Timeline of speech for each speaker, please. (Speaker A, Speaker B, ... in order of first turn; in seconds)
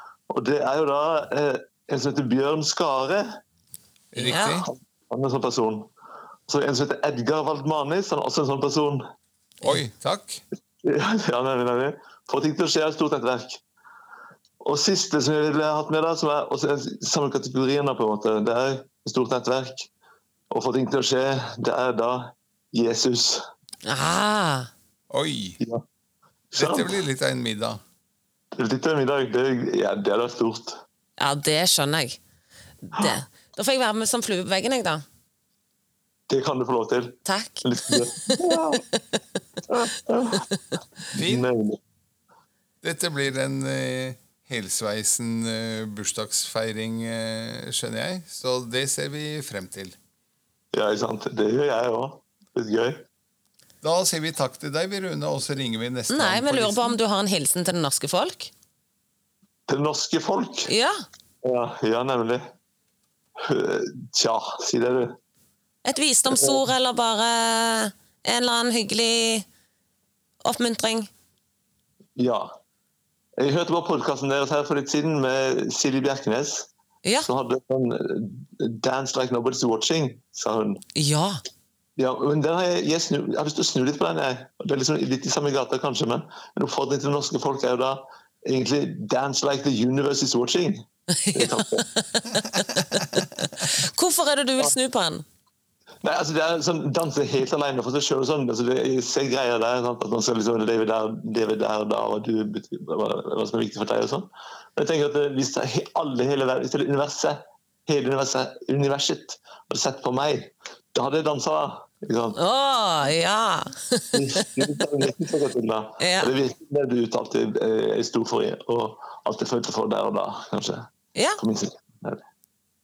Speaker A: 0.3-3.4, 4.6-5.9, 6.5-9.1, 10.8-13.6, 14.6-19.9, 20.5-23.4, 26.5-26.9, 28.5-30.8, 36.3-38.8, 39.7-40.4, 41.2-41.8, 50.7-53.0, 59.7-60.7, 61.4-62.5, 63.4-65.2, 66.3-66.6, 72.2-72.5, 73.4-76.7, 77.2-80.8, 82.0-91.8, 96.0-112.4, 114.1-122.2
Speaker B: 4.1-4.7, 9.6-10.4, 25.1-25.6, 26.5-27.8, 41.1-41.5, 42.8-49.9, 53.8-57.0
Speaker C: 4.2-4.6, 23.8-24.7, 31.2-32.2, 32.8-35.0, 37.2-38.8, 56.1-58.5, 60.7-61.0, 65.8-69.4, 70.4-71.1, 77.0-77.3, 80.9-81.4, 91.2-95.2, 112.3-114.6, 116.0-116.3, 121.1-121.4